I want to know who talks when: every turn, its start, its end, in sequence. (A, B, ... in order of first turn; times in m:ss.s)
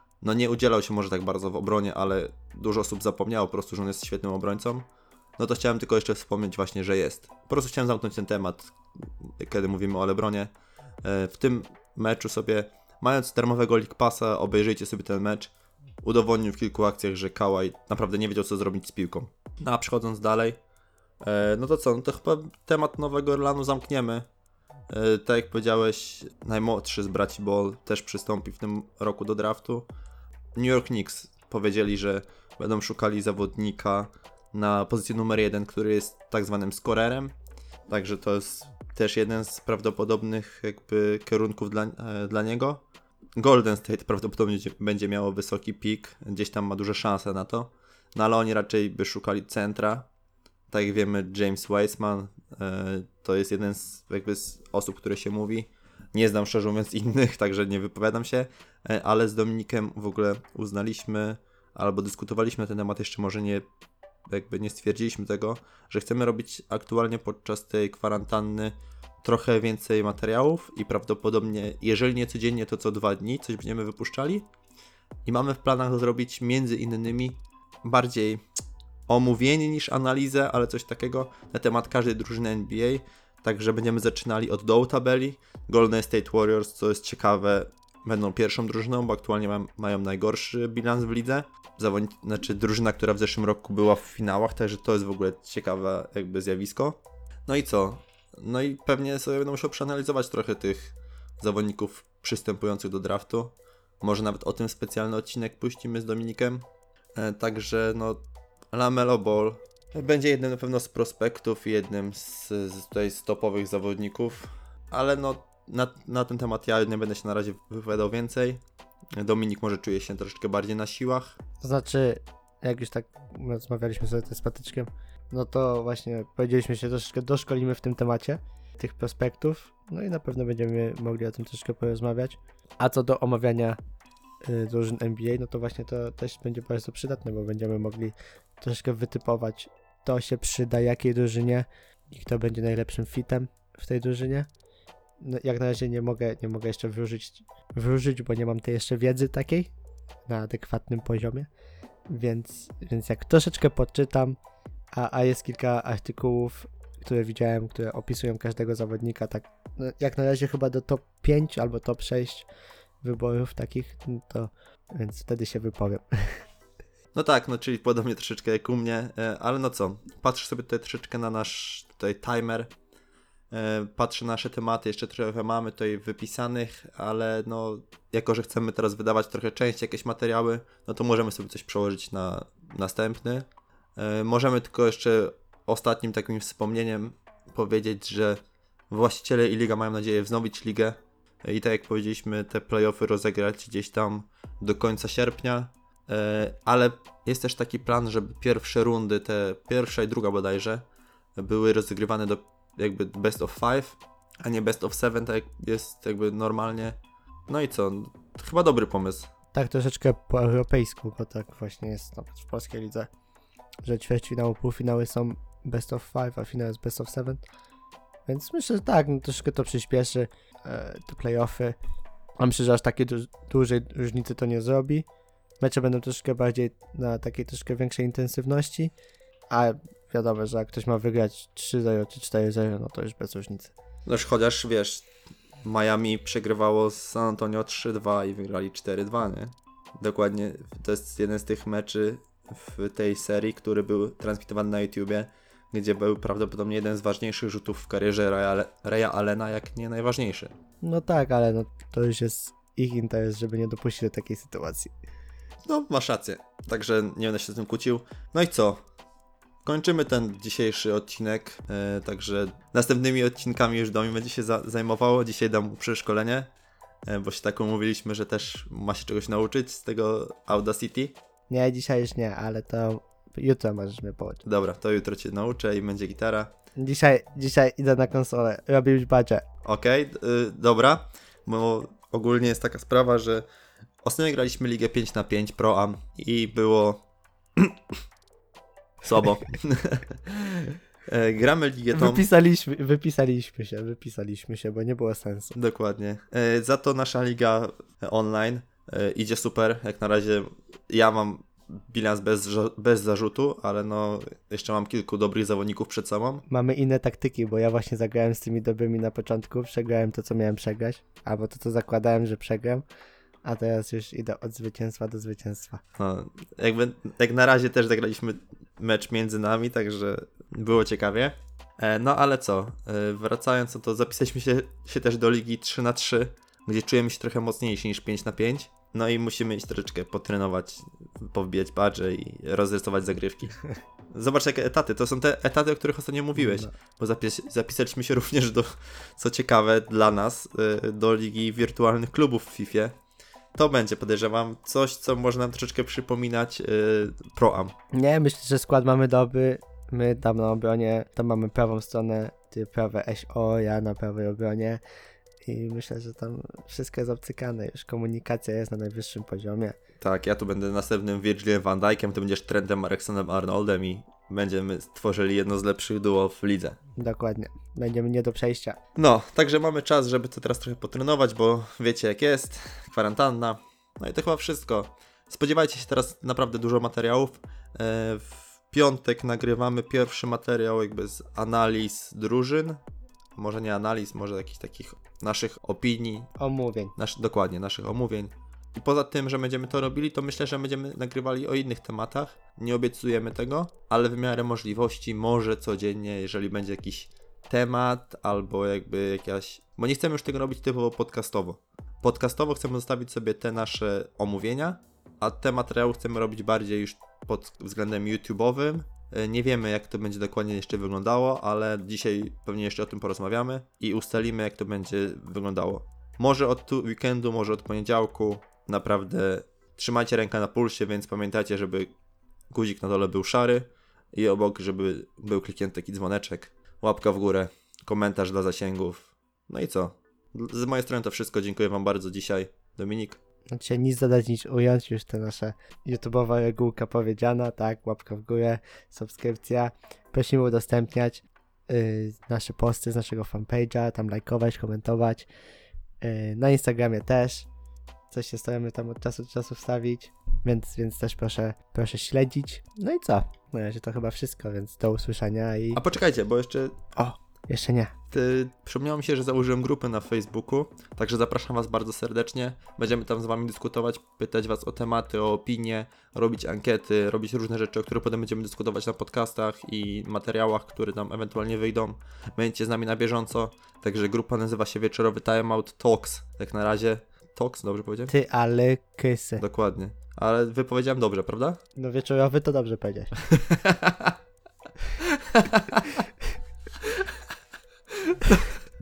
0:00.2-0:04.9 A
0:05.4-0:10.5 A
0:11.0-0:20.6 A
0:21.2-0:24.3 A
0:24.9-0:29.9 A
0:30.6-0:37.4 A
0:37.9-0:42.8 A
0:43.4-0:50.1 A
0:50.7-1:03.7 A
1:04.3-1:14.5 A
1:15.2-1:18.4 A
1:19.1-1:58.6 A
1:59.2-2:01.4 A
2:01.6-2:13.8 B
2:14.4-2:24.5 B
2:25.2-2:29.7 B
2:30.3-2:31.5 B
2:32.1-2:34.4 B
2:34.9-2:42.5 B
2:43.0-2:46.4 B
2:47.1-2:52.7 A
2:53.5-3:20.8 A
3:21.4-3:29.3 A
3:29.5-3:33.1 B
3:33.8-3:37.4 B
3:38.3-3:41.8 B
3:42.4-3:45.0 B
3:45.6-3:48.9 B
3:49.5-3:53.8 B
3:54.1-3:55.1 A
3:55.6-4:10.6 A
4:10.8-4:14.9 B
4:15.6-4:18.8 A
4:19.6-4:26.5 A
4:27.1-4:31.2 A
4:31.5-4:34.4 B
4:34.4-4:36.5 A
4:36.8-4:39.4 B
4:39.6-4:43.5 A
4:44.0-4:47.0 A
4:47.6-4:48.0 A
4:49.0-4:52.3 A
4:51.9-4:55.6 B
4:55.6-5:06.4 A
5:06.5-5:12.8 B
5:13.4-5:15.8 B
5:16.0-5:33.6 A
5:34.1-5:43.0 A
5:36.4-5:36.7 B
5:43.6-5:47.8 A
5:47.9-5:54.8 B
5:55.4-5:59.8 B
6:00.0-6:06.8 A
6:07.0-6:08.8 B
6:09.0-6:22.8 A
6:23.4-6:26.3 A
6:26.4-6:27.0 B
6:27.0-7:01.9 A
7:02.5-7:13.2 A
7:13.5-7:25.3 B
7:26.0-7:27.5 B
7:28.1-7:35.8 B
7:35.7-7:36.8 A
7:37.0-7:37.9 B
7:38.1-7:58.1 A
7:58.1-7:59.4 B
7:59.4-8:01.6 A
8:01.8-8:03.1 B
8:03.2-8:04.2 A
8:05.0-8:06.0 A
8:08.2-8:08.6 A